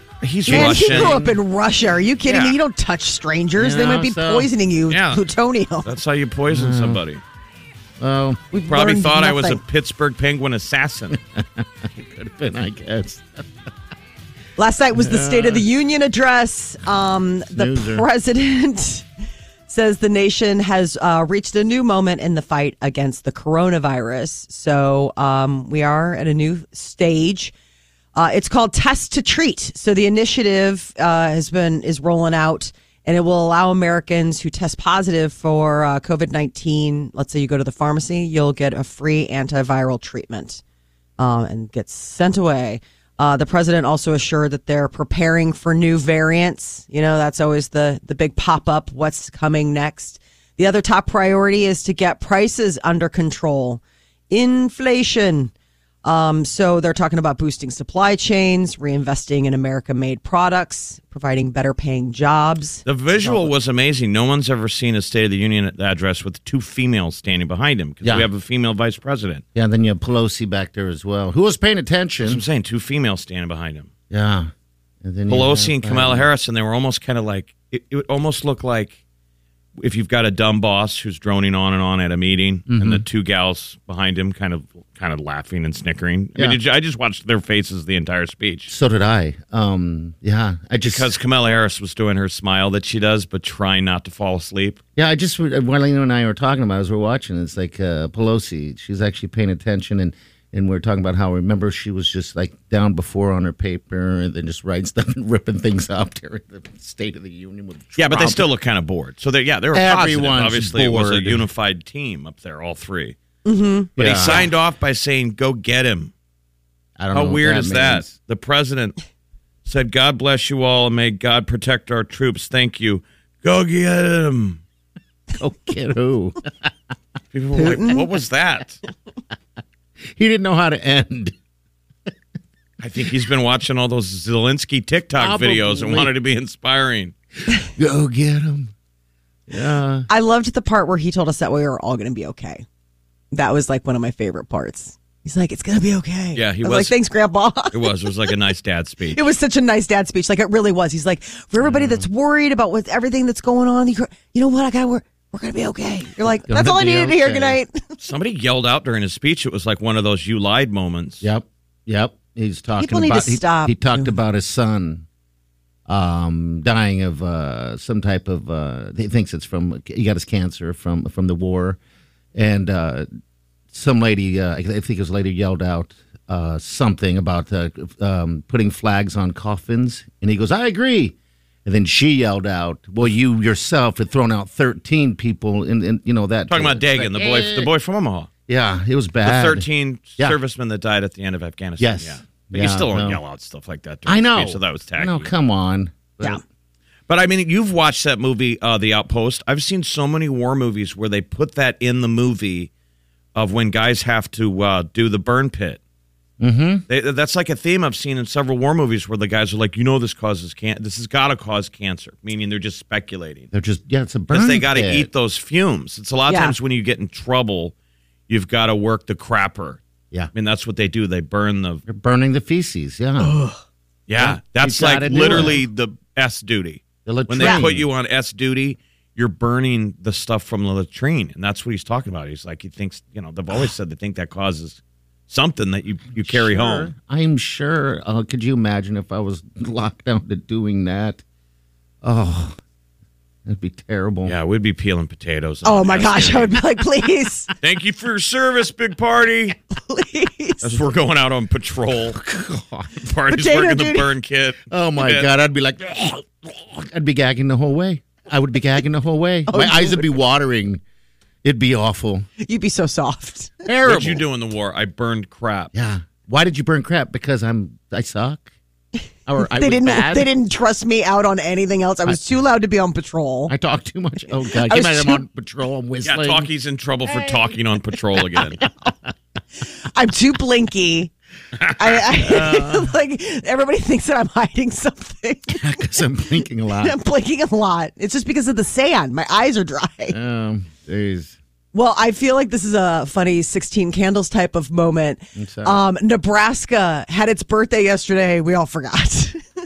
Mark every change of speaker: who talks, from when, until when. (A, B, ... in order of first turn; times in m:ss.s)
0:00.2-0:01.4 A
0:00.4-0:05.9 B
0:00.5-0:01.2 C
0:02.3-0:02.6 A
0:03.6-0:04.5 C
0:04.9-0:05.2 A
0:05.8-0:07.2 A
0:06.5-0:07.0 C
0:08.0-0:08.4 C
0:08.5-0:09.6 B
0:08.7-0:11.2 A
0:11.1-0:13.5 C
0:14.6-0:19.0 B
0:15.0-0:15.6 C
0:17.5-0:18.0 C
0:19.7-0:27.5 B
0:28.1-0:40.6 B
0:41.2-0:55.5 B
0:56.0-1:02.8 B
1:02.8-1:09.4 A
1:08.0-1:08.3 C
1:09.5-1:12.4 C
1:12.2-1:13.9 A
1:14.1-1:14.5 C
1:15.0-1:16.3 C
1:15.3-1:19.0 A
1:19.8-1:28.7 A
1:22.7-1:23.0 C
1:28.7-1:31.1 C
1:30.8-1:34.8 A
1:35.0-1:48.5 C
1:48.0-1:53.2 A
1:49.7-1:51.4 C
1:53.4-1:54.4 B
1:54.0-1:54.5 C
1:54.0-1:56.1 A
1:57.0-1:58.1 C
1:57.1-1:59.0 A
1:59.6-2:04.6 A
2:05.4-2:06.7 C
2:07.3-2:08.8 A
2:07.6-2:08.0 B
2:10.1-2:11.3 C
2:12.8-2:17.1 A
2:15.2-2:16.1 C
2:17.8-2:18.7 C
2:19.5-2:20.1 C
2:20.1-2:22.6 B
2:23.3-2:28.3 B
2:26.3-2:26.9 A
2:27.7-2:29.2 A
2:29.1-2:37.8 B
2:31.6-2:32.0 C
2:36.4-2:37.6 C
2:38.0-2:41.2 A
2:41.2-2:45.0 C
2:42.8-2:44.1 B
2:45.9-2:51.8 C
2:52.3-2:53.0 C
2:53.7-3:07.7 C
3:06.5-3:08.3 A
3:08.5-3:09.7 C
3:09.2-3:15.3 A
3:11.8-3:13.2 C
3:14.0-3:16.4 C
3:17.1-3:22.7 A
3:23.3-3:25.8 A
3:26.4-3:26.8 C
3:26.9-3:33.5 A
3:33.5-3:35.1 C
3:34.3-3:37.7 A
3:36.3-3:36.5 B
3:38.3-3:39.8 A
3:40.3-3:41.8 A
3:41.9-3:43.3 C
3:44.1-3:56.9 A
3:44.2-3:45.6 C
3:47.0-3:47.9 C
3:47.4-3:47.7 B
3:56.2-4:01.2 C
4:02.0-4:02.6 C
4:03.4-4:04.4 C
4:04.2-4:06.6 A
4:05.6-4:07.5 B
4:07.6-4:09.6 A
4:09.7-4:10.7 B
4:10.6-4:12.2 A
4:12.1-4:13.1 C
4:13.0-4:15.3 A
4:13.3-4:14.1 B
4:14.7-4:20.8 C
4:19.5-4:20.2 B
4:21.4-4:22.2 C
4:22.4-4:23.6 B
4:23.6-4:24.2 C
4:23.8-4:25.7 A
4:25.7-4:28.5 C
4:29.2-4:30.3 C
4:29.4-4:33.5 B
4:33.5-4:36.5 C
4:34.6-4:35.2 B
4:36.0-4:38.6 A
4:37.1-4:37.6 C
4:38.3-4:38.9 C
4:39.8-4:41.1 B
4:41.8-4:45.8 B
4:42.3-4:42.7 C
4:45.5-4:47.0 C
4:46.8-4:50.2 B
4:50.1-4:51.4 C
4:51.7-4:59.4 B
4:55.4-4:55.8 C